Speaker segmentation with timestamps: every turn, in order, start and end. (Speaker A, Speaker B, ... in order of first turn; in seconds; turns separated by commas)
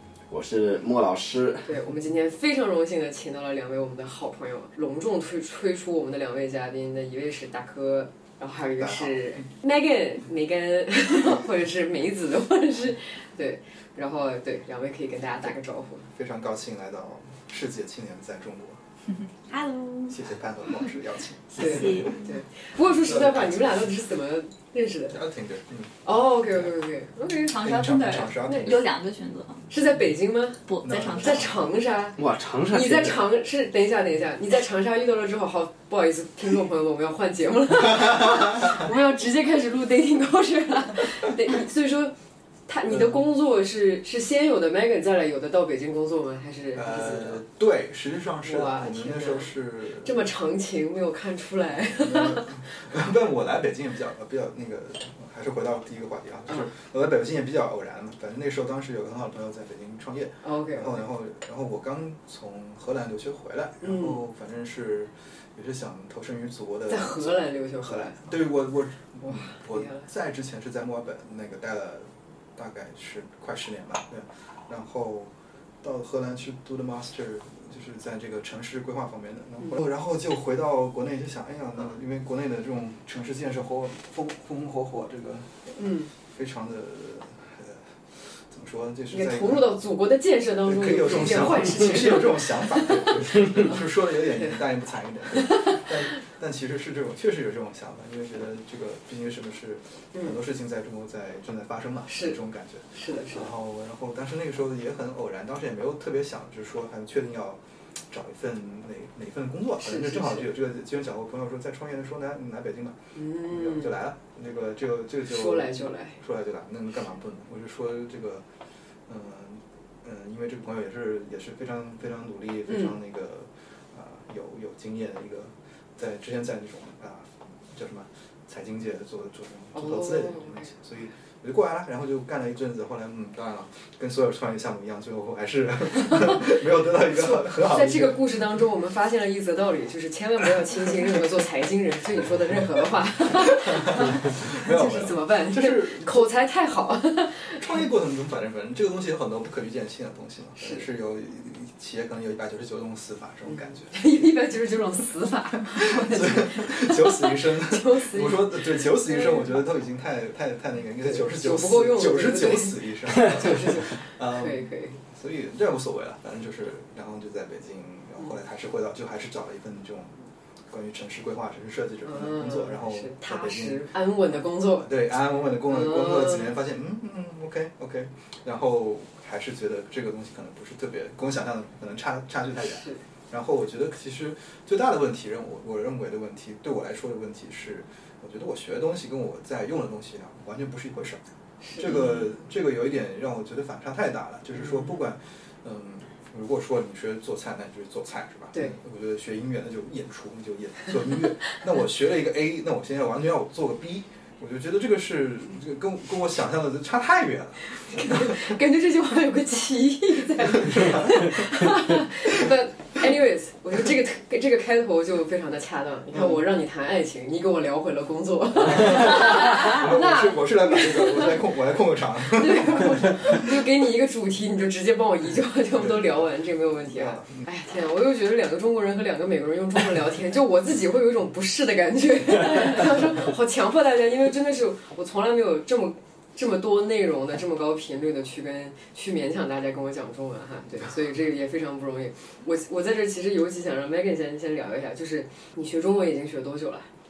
Speaker A: 0.3-1.7, Speaker B: 1.6-16.1, Speaker C: 8.8-9.4, Speaker C: 16.1-18.8, Speaker D: 19.5-20.1, Speaker C: 20.1-22.2, Speaker B: 21.5-25.2, Speaker D: 21.6-22.3, Speaker C: 23.0-23.8, Speaker C: 25.1-26.0, Speaker B: 26.0-27.6, Speaker D: 27.4-29.7, Speaker C: 27.6-28.8, Speaker B: 28.4-28.8, Speaker B: 29.7-30.6, Speaker D: 30.7-31.5, Speaker C: 30.8-31.5, Speaker B: 31.1-42.1, Speaker A: 32.2-33.2, Speaker B: 42.7-47.4, Speaker C: 42.9-43.2, Speaker C: 46.7-50.2, Speaker B: 48.4-49.5, Speaker B: 50.0-52.6, Speaker C: 51.8-85.6, Speaker B: 60.4-61.1, Speaker B: 63.8-64.2, Speaker B: 66.9-68.3, Speaker B: 69.2-70.1, Speaker B: 85.8-86.1, Speaker C: 86.3-89.7, Speaker B: 89.1-93.8, Speaker C: 90.6-118.4, Speaker B: 95.4-95.9, Speaker B: 102.1-102.4, Speaker B: 102.9-103.5, Speaker B: 109.8-110.5, Speaker B: 113.2-113.9, Speaker B: 115.3-116.2, Speaker C: 119.1-138.2, Speaker B: 122.7-122.9, Speaker B: 129.7-130.7, Speaker B: 136.1-136.4, Speaker B: 137.1-147.7, Speaker C: 143.4-146.3, Speaker C: 147.6-153.9, Speaker B: 150.6-150.8, Speaker B: 153.4-159.5, Speaker C: 155.8-170.1, Speaker B: 161.0-164.9, Speaker C: 170.7-173.9, Speaker B: 172.0-174.9, Speaker C: 174.8-191.2, Speaker B: 175.7-176.4, Speaker B: 191.6-192.1, Speaker C: 191.8-208.5, Speaker B: 207.8-221.4, Speaker C: 210.4-211.8, Speaker C: 216.1-216.4, Speaker C: 218.6-223.4, Speaker B: 222.3-246.9, Speaker C: 225.8-226.3, Speaker C: 226.9-227.5